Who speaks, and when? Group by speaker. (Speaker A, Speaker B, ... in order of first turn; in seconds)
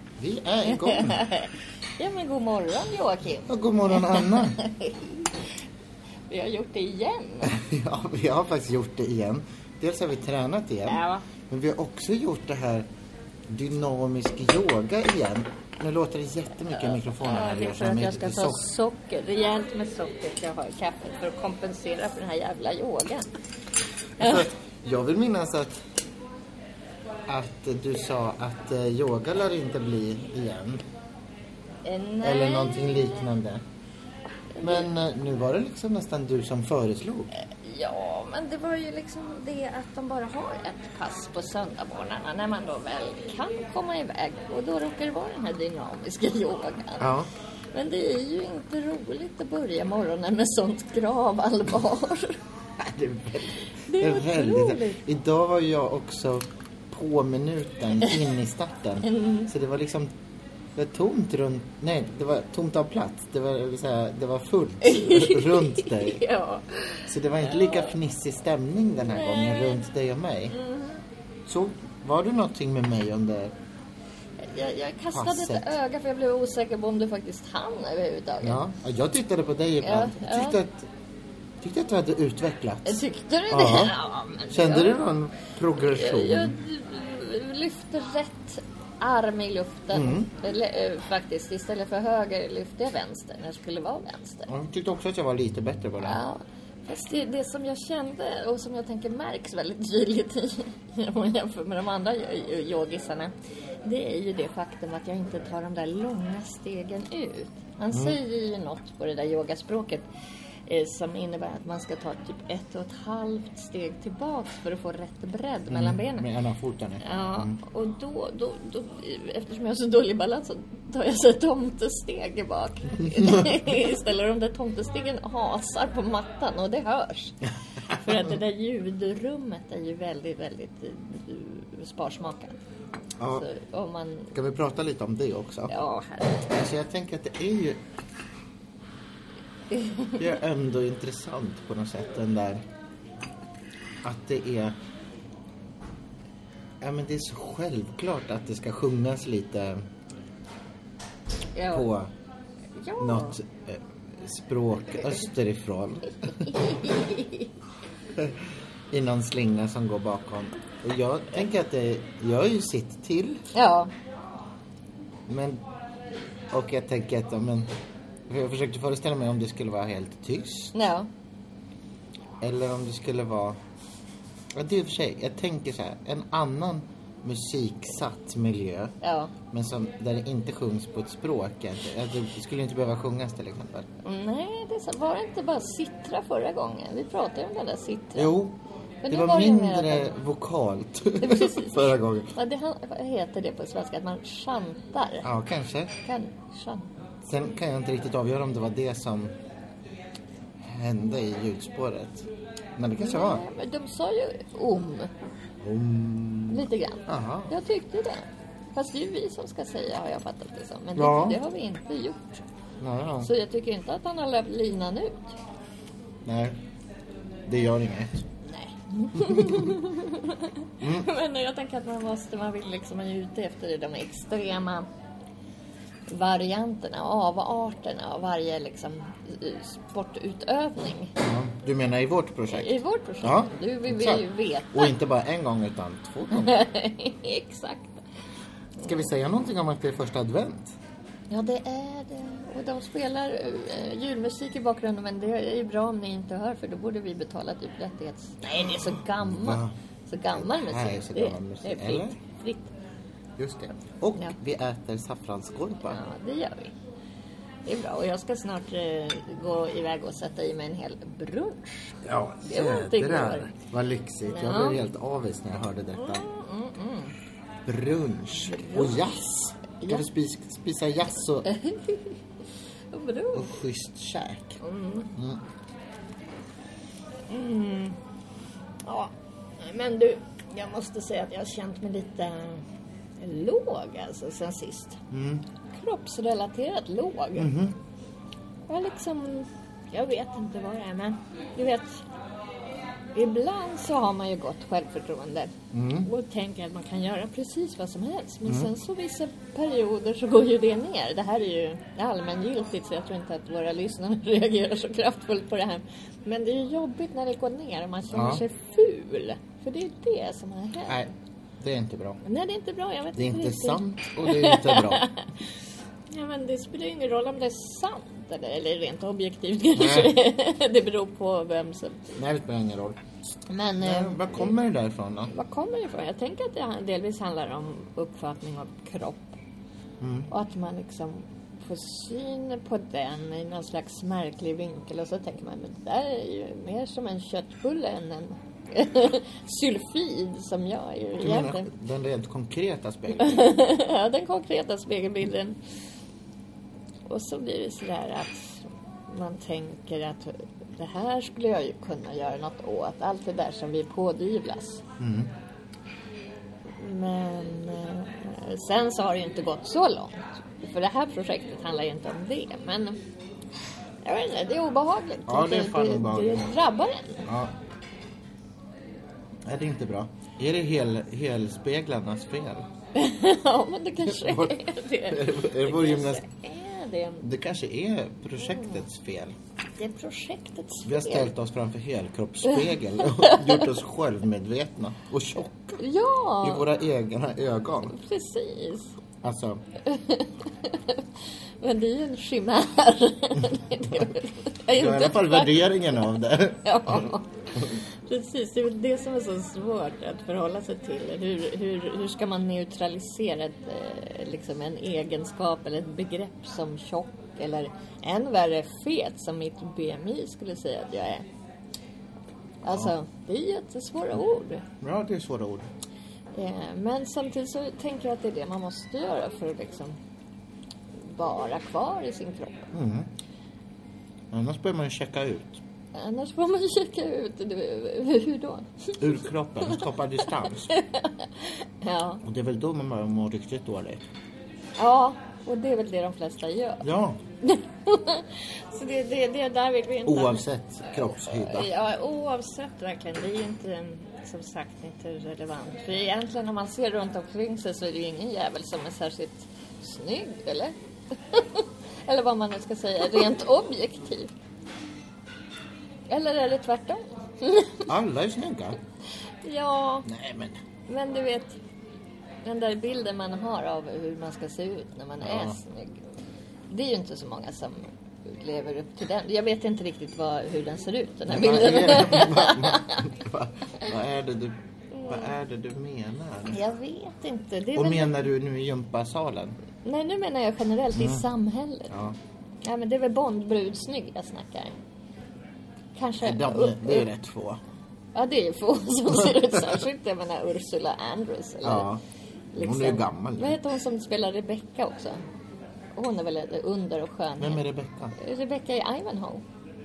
Speaker A: 0.2-1.2, 3.5-4.6, 7.4-12.9, 13.5-18.6, 24.2-25.8, 27.3-30.8, 32.2-33.6, 34.6-37.3, 47.0-47.3, 52.8-60.1, 60.7-66.2, 67.1-70.5, 71.5-73.5, 75.1-75.7, 78.4-80.9, 81.6-84.0, 84.5-86.5, 89.9-90.3, 94.5-96.2, 107.9-108.2, 115.7-117.6, 133.2-133.5, 134.3-135.7, 136.5-137.8, 140.2-142.6, 144.0-144.7, 146.8-149.8, 151.7-152.1, 153.0-156.9, 158.9-163.4, 165.3-165.6, 166.5-167.7, 168.3-170.7, 172.4-173.6, 174.5-178.9, 179.5-183.9, 188.1-192.3, 195.2-195.9, 197.2-199.3, 200.6-203.4, 205.6-207.5, 210.9-211.4, 212.8-213.3, 216.2-216.6, 217.4-218.2, 219.2-219.8, 220.8-221.1, 231.2-236.6, 238.8-240.7, 248.5-249.7, 250.3-252.1, 253.4-256.1, 262.0-266.2, 267.6-271.5, 273.3-274.6, 275.1-275.4, 285.1-285.4, 287.4-287.8, 295.7-296.1, 298.4-298.7, 308.1-308.4, 310.9-312.2, 313.1-315.1, 319.7-320.1, 322.1-323.0, 323.8-325.3, 330.0-330.3, 341.2-343.5, 355.0-355.3, 365.3-366.5, 367.2-367.5, 369.4-372.7, 374.0-376.2, 377.2-379.3, 380.8-385.8, 386.4-388.0, 389.2-389.6, 394.7-397.1, 412.6-412.9, 414.8-415.7, 422.7-423.1, 424.3-425.6, 429.0-430.8, 432.2-434.0, 436.8-437.2, 440.1-441.7, 457.9-458.8, 460.1-460.6, 465.2-465.6, 471.3-474.6, 475.1-476.6, 477.7-479.6, 480.9-481.3, 481.9-482.1, 486.2-487.6, 491.6-492.0, 492.6-493.6, 497.4-498.1
Speaker B: 0.6-5.5, 6.3-7.6, 10.8-11.2, 16.8-23.2, 24.2-24.5, 31.8-33.4, 34.6-34.9, 37.3-47.1, 47.7-52.4, 53.9-55.0, 59.0-59.5, 64.8-67.9, 69.0-69.8, 70.5-71.0, 74.4-78.6, 79.8-80.6, 82.8-85.0, 85.8-94.5, 96.0-103.3, 103.8-110.0, 110.7-116.3, 117.0-132.6, 133.3-134.3, 135.7-136.5, 139.7-140.2, 151.5-151.9, 152.8-153.4, 156.5-157.5, 163.5-163.9, 170.7-171.1, 179.0-179.3, 184.0-188.3, 189.0-190.1, 191.2-195.3, 196.0-196.9, 202.9-205.1, 206.5-212.4, 213.2-215.3, 218.4-224.9, 226.1-231.1, 232.5-234.9, 236.3-238.0, 241.3-252.7, 255.8-256.7, 257.6-263.5, 264.2-264.8, 265.9-267.1, 268.4-269.1, 271.4-272.2, 272.9-273.5, 274.6-275.1, 277.3-278.0, 278.8-282.6, 283.2-285.0, 285.7-287.5, 288.7-292.0, 293.1-311.0, 312.2-315.3, 316.1-322.1, 323.5-324.5, 325.3-329.3, 330.3-341.7, 343.1-345.6, 347.1-354.8, 356.8-363.0, 364.0-367.3, 372.9-377.2, 379.8-381.3, 382.4-383.7, 385.8-386.6, 387.9-388.9, 389.8-391.0, 391.6-411.2, 412.6-414.6, 416.3-420.0, 421.1-422.7, 425.9-429.0, 430.7-432.2, 434.8-436.8, 437.4-450.7, 451.3-454.3, 456.1-457.9, 459.4-460.1, 460.9-461.6, 462.4-466.0, 466.7-473.1, 474.9-475.3, 476.5-478.2, 479.8-481.9, 482.6-484.8, 485.9-487.1, 488.1-491.9, 492.5-495.2, 496.0-497.6, 498.1-499.4